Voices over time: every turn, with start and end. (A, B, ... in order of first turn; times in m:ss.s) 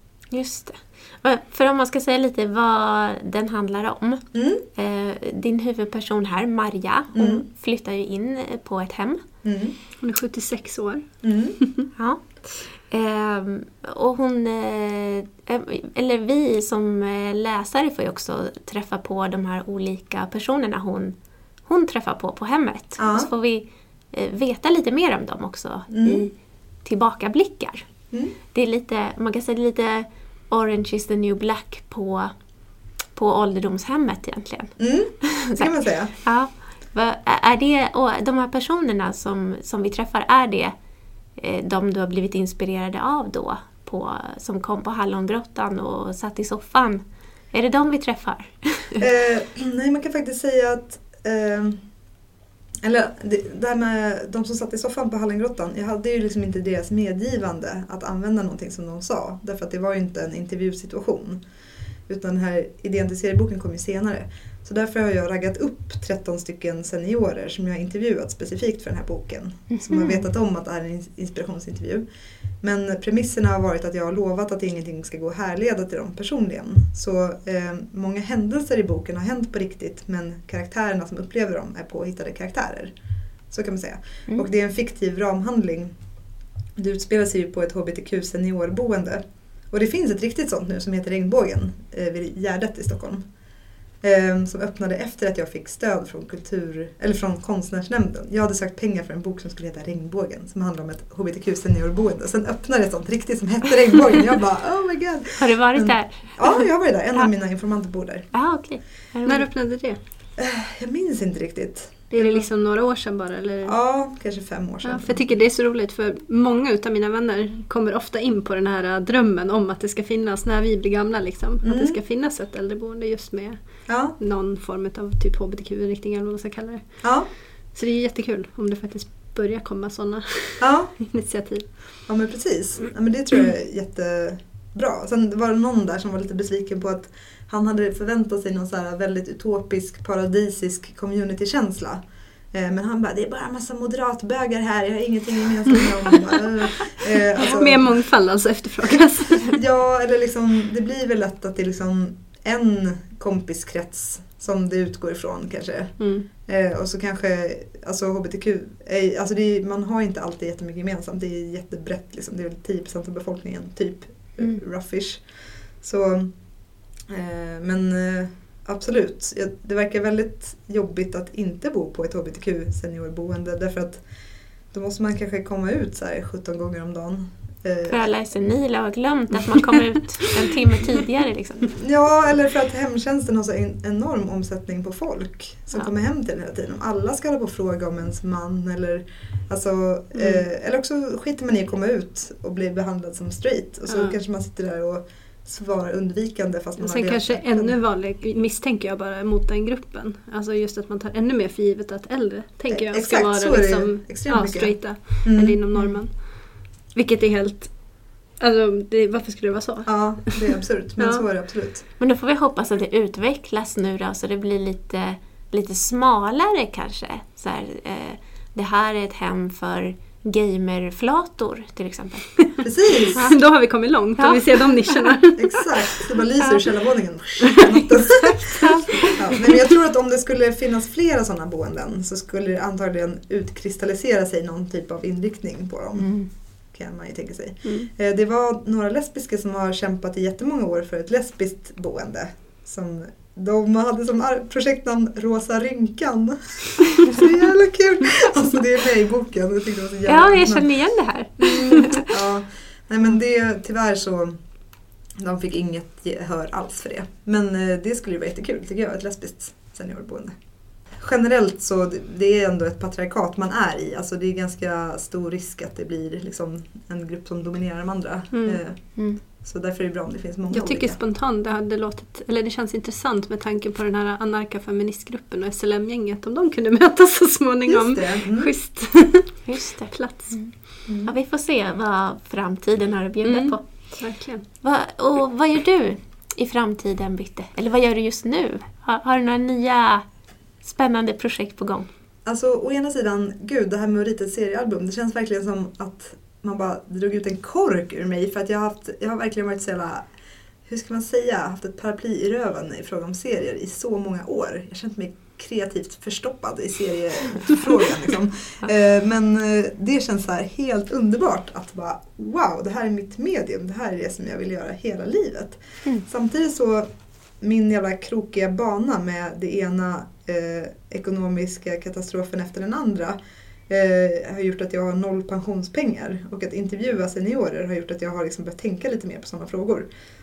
0:00.3-0:09.2 A
0:04.3-0:04.6 B
0:07.1-0:07.4 B
0:09.4-0:09.8 B
0:10.0-0:11.8 C
0:11.2-0:11.6 B
0:12.0-0:27.9 A
0:23.0-0:23.3 B
0:25.9-0:26.3 B
0:28.5-0:32.3 A
0:33.1-0:40.8 A
0:34.8-0:36.1 B
0:41.4-0:49.0 A
0:49.0-0:51.8 B
0:52.8-1:01.4 B
1:02.1-1:12.0 B
1:09.8-1:10.2 A
1:12.6-1:22.9 B
1:23.5-1:26.0 B
1:26.8-1:33.2 B
1:34.0-1:48.3 B
1:45.4-1:47.3 A
1:48.3-1:49.5 A
1:49.2-1:50.0 C
1:50.4-1:52.4 B
1:52.1-1:53.8 C
1:53.6-1:55.2 B
1:54.8-2:11.7 C
2:01.6-2:02.0 B
2:03.9-2:04.2 B
2:07.0-2:07.3 B
2:10.6-2:10.9 B
2:12.1-2:22.0 B
2:22.5-2:27.9 B
2:27.4-2:29.6 C
2:29.4-2:45.2 B
2:36.0-2:36.3 C
2:45.8-2:46.3 B
2:47.1-2:54.0 B
2:54.7-2:58.0 B
2:57.9-3:01.8 A
3:01.8-3:17.7 B
3:13.9-3:14.2 C
3:16.8-3:31.2 C
3:22.7-3:25.6 B
3:29.9-3:31.8 B
3:32.0-3:42.6 A
3:42.6-3:43.3 B
3:43.1-3:45.4 C
3:44.2-3:45.0 A
3:45.4-3:56.2 B
3:47.6-3:49.5 C
3:48.6-3:49.2 A
3:56.0-3:56.3 A
3:56.7-4:10.7 B
3:57.6-3:57.9 C
4:10.1-4:12.1 A
4:12.1-4:14.4 B
4:15.2-4:20.4 B
4:20.9-4:31.0 B
4:28.3-4:28.6 C
4:30.5-4:40.4 C
4:37.7-4:38.5 B
4:39.5-4:50.1 A
4:40.9-4:41.1 B
4:43.2-4:44.4 C
4:50.6-4:51.9 A
4:52.3-5:00.0 B
5:00.7-5:16.9 B
5:17.4-5:23.2 B
5:23.7-5:29.9 B